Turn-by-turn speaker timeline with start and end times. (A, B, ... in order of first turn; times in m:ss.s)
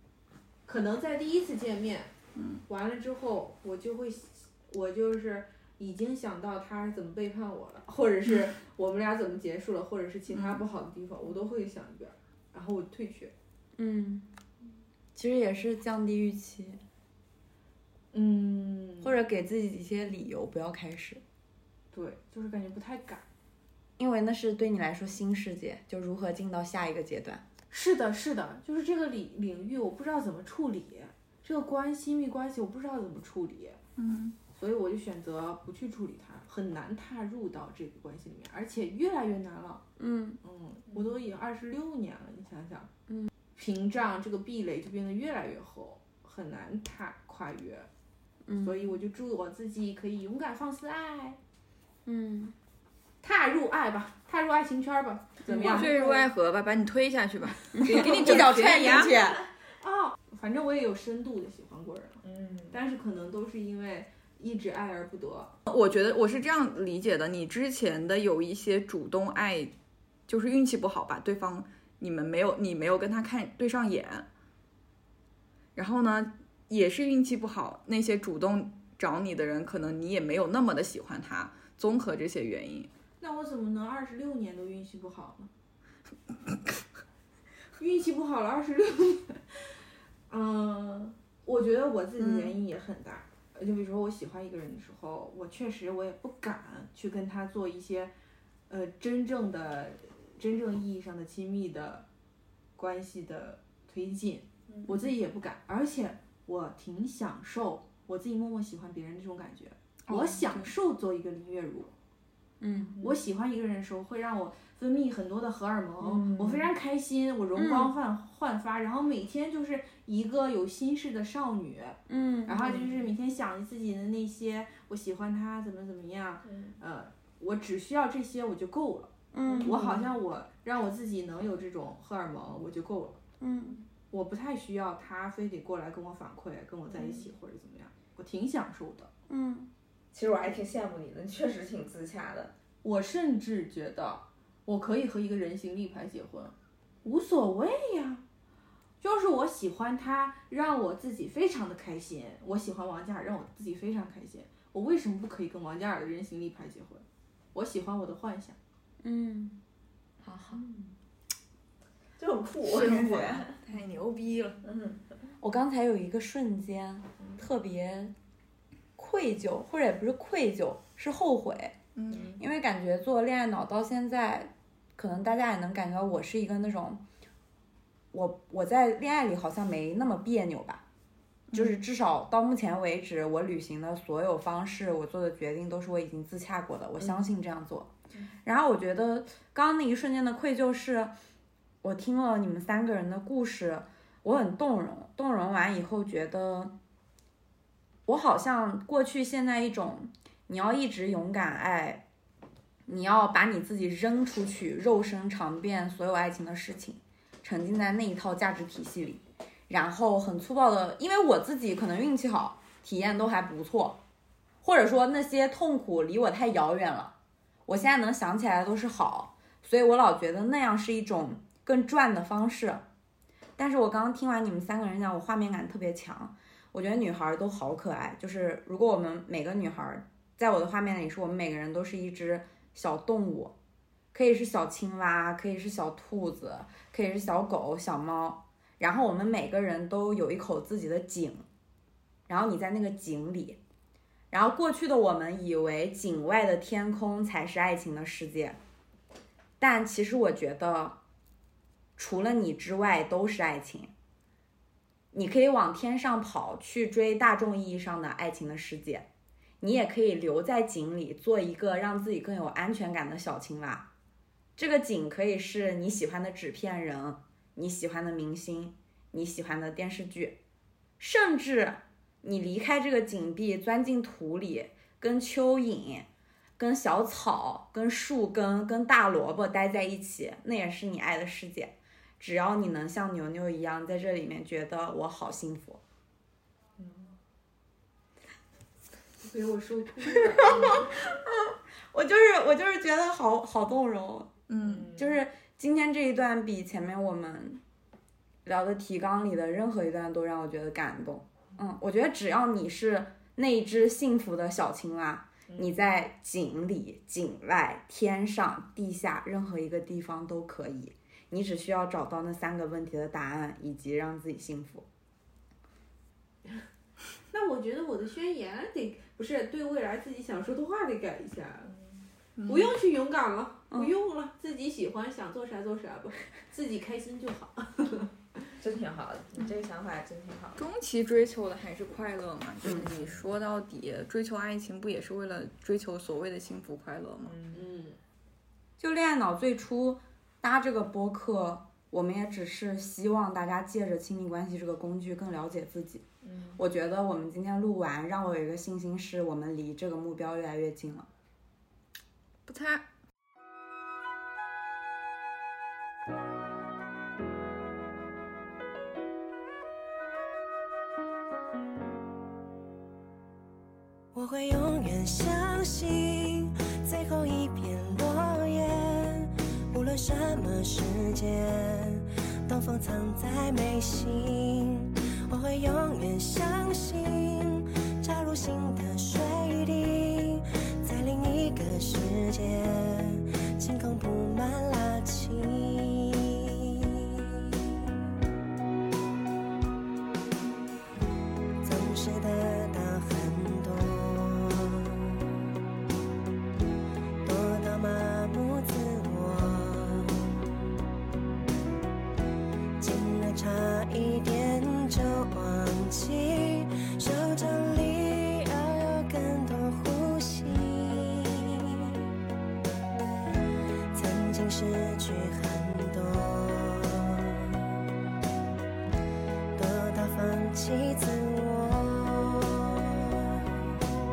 0:00.7-0:02.1 A
0:02.4-0:02.6 B
0:02.7-0:13.3 A
0:10.3-0:10.6 B
0:13.8-0:14.3 C
0:15.2-0:16.8 C
0:18.1-0:19.2 A
0:19.0-0:21.2 C
0:21.9-0:23.2 A
0:24.0-0:27.4 C
0:27.7-0:33.8 A
0:34.0-0:34.4 B
0:34.5-0:39.8 A
0:40.0-0:40.4 C
0:40.4-0:42.9 A
0:43.6-0:47.9 A
0:48.5-0:49.0 C
0:48.6-0:51.4 A
0:52.1-0:52.6 C
0:53.2-0:56.3 A
0:55.5-0:55.9 C
0:55.5-0:59.1 B
0:57.8-0:59.4 C
0:59.8-1:05.6 A
1:02.2-1:02.8 D
1:05.7-1:09.7 B
1:10.3-1:14.3 B
1:15.8-1:22.9 B
1:23.2-1:25.5 A
1:27.8-1:38.1 A
1:32.2-1:32.6 B
1:38.7-1:42.1 A
1:42.8-1:51.9 A
1:50.1-1:50.7 B
1:52.6-1:53.0 C
1:53.0-2:13.2 A
1:56.0-1:56.6 C
1:57.6-1:57.9 C
2:02.1-2:02.7 C
2:02.6-2:02.9 D
2:06.4-2:06.8 D
2:09.3-2:10.1 C
2:09.4-2:09.7 D
2:13.4-2:13.8 C
2:14.1-2:19.1 A
2:19.3-2:19.7 C
2:20.1-2:22.5 D
2:22.8-2:28.2 A
2:29.0-2:38.6 A
2:39.0-2:39.6 C
2:40.2-2:40.6 C
2:40.5-2:40.9 D
2:42.2-2:43.6 D
2:42.7-2:44.6 B
2:44.6-2:45.1 D
2:45.4-2:48.1 C
2:49.0-2:51.8 C
2:52.0-2:52.3 B
2:52.1-2:52.4 D
2:52.4-2:57.0 C
2:58.1-3:00.8 C
3:01.5-3:01.8 B
3:01.5-3:07.9 C
3:08.4-3:11.1 C
3:11.8-3:16.8 C
3:18.1-3:22.1 C
3:22.9-3:34.0 C
3:34.6-3:37.2 C
3:37.7-3:42.8 C
3:43.6-3:53.6 C
3:54.1-4:01.5 C
4:02.3-4:03.6 C
4:04.3-4:08.6 C
4:09.6-4:11.0 C
4:12.0-4:13.9 C
4:15.1-4:19.1 C
4:19.6-4:23.9 C
4:24.6-4:30.4 C
4:31.0-4:45.8 C
4:46.8-4:47.1 D
4:49.2-4:50.9 A
4:50.2-4:57.6 C
4:54.5-4:54.9 B
4:54.6-4:55.0 D
4:58.4-5:14.9 C
5:17.3-5:21.7 A
5:21.7-5:22.0 D
5:22.4-5:22.8 B
5:22.5-5:28.1 A
5:28.6-5:30.6 D
5:30.6-5:37.4 B
5:32.6-5:32.9 C
5:32.9-5:33.2 D
5:37.2-5:37.7 D
5:37.5-5:38.0 A
5:38.8-5:51.1 C
5:46.2-5:46.6 D
5:52.4-5:52.8 B
6:04.1-6:27.6 E
6:31.6-6:35.3 E
6:37.2-6:40.4 E
6:42.8-6:52.1 E
6:53.9-6:57.8 E
6:59.6-7:03.8 E